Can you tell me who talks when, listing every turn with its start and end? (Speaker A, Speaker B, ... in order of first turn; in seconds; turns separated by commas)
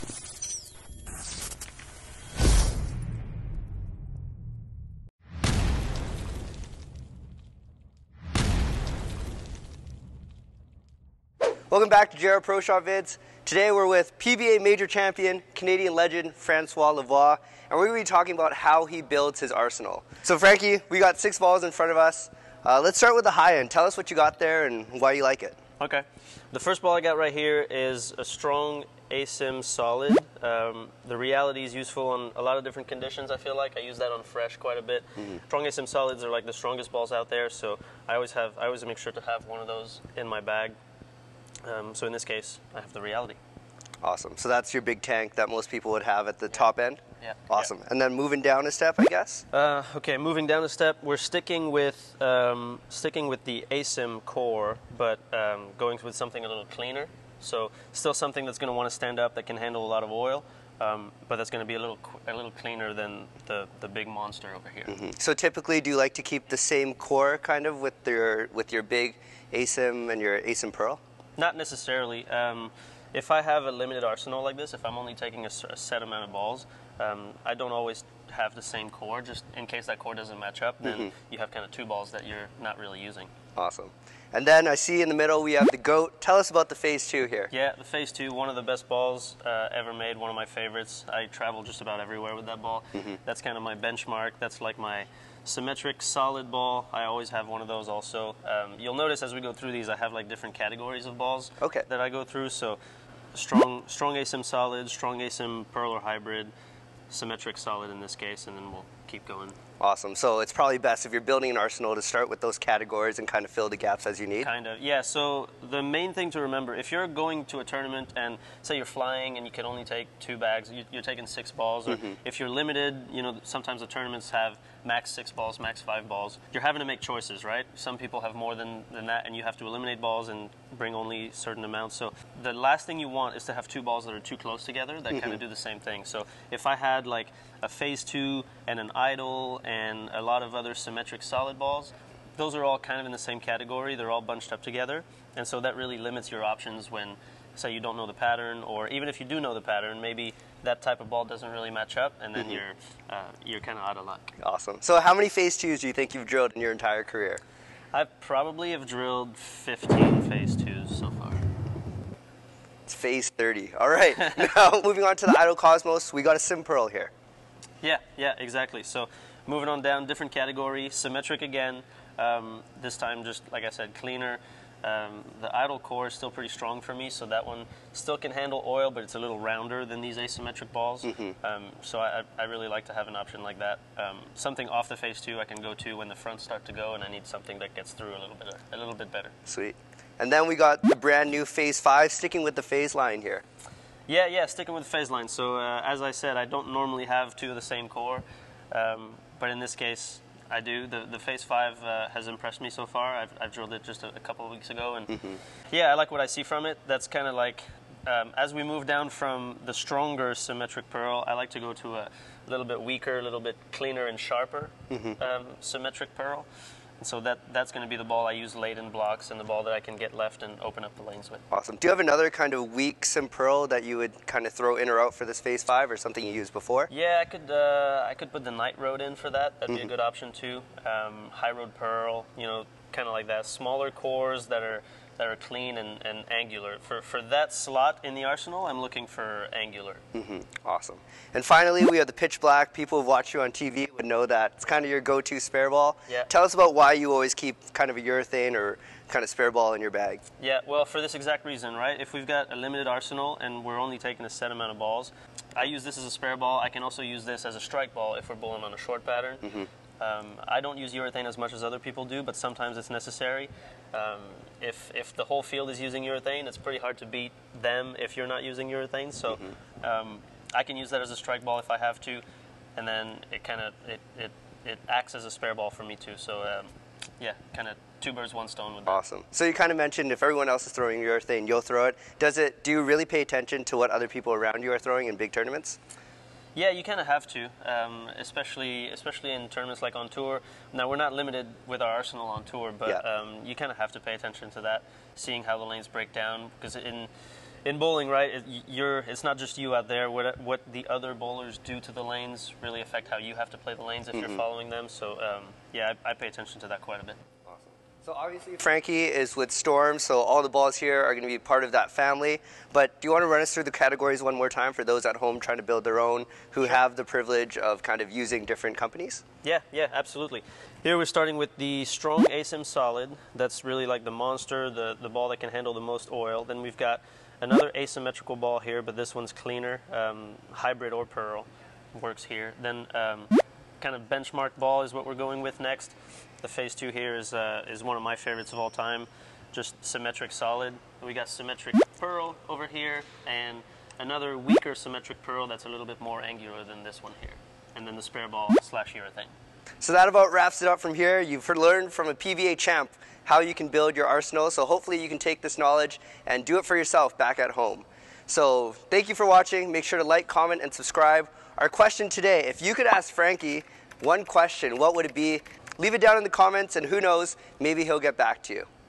Speaker A: 11.7-25.6, Speaker B: 25.8-40.7, Speaker B: 41.6-43.4, Speaker A: 44.0-49.4, Speaker B: 47.2-47.7, Speaker B: 49.5-64.9, Speaker A: 64.9-71.0, Speaker B: 71.4-83.3, Speaker A: 80.8-81.1, Speaker A: 83.5-87.5, Speaker B: 87.5-102.8, Speaker A: 101.6-101.8, Speaker B: 103.3-106.5, Speaker B: 107.1-109.5, Speaker A: 109.8-114.5, Speaker B: 114.4-154.3, Speaker A: 121.9-122.2, Speaker A: 154.4-157.4, Speaker B: 157.9-161.4, Speaker A: 162.9-167.1, Speaker B: 167.8-189.3, Speaker A: 181.0-181.4, Speaker A: 189.4-193.4, Speaker B: 194.1-205.1, Speaker A: 205.1-205.4, Speaker B: 205.7-216.4, Speaker A: 214.9-215.2, Speaker B: 217.0-221.4, Speaker A: 221.5-226.9, Speaker B: 226.9-240.0, Speaker A: 240.1-250.2, Speaker B: 250.4-272.2, Speaker B: 272.8-279.0, Speaker A: 278.9-285.8, Speaker B: 286.6-297.1, Speaker B: 297.6-307.2, Speaker A: 304.1-304.4, Speaker A: 307.4-319.2, Speaker B: 319.4-349.3, Speaker A: 349.8-368.7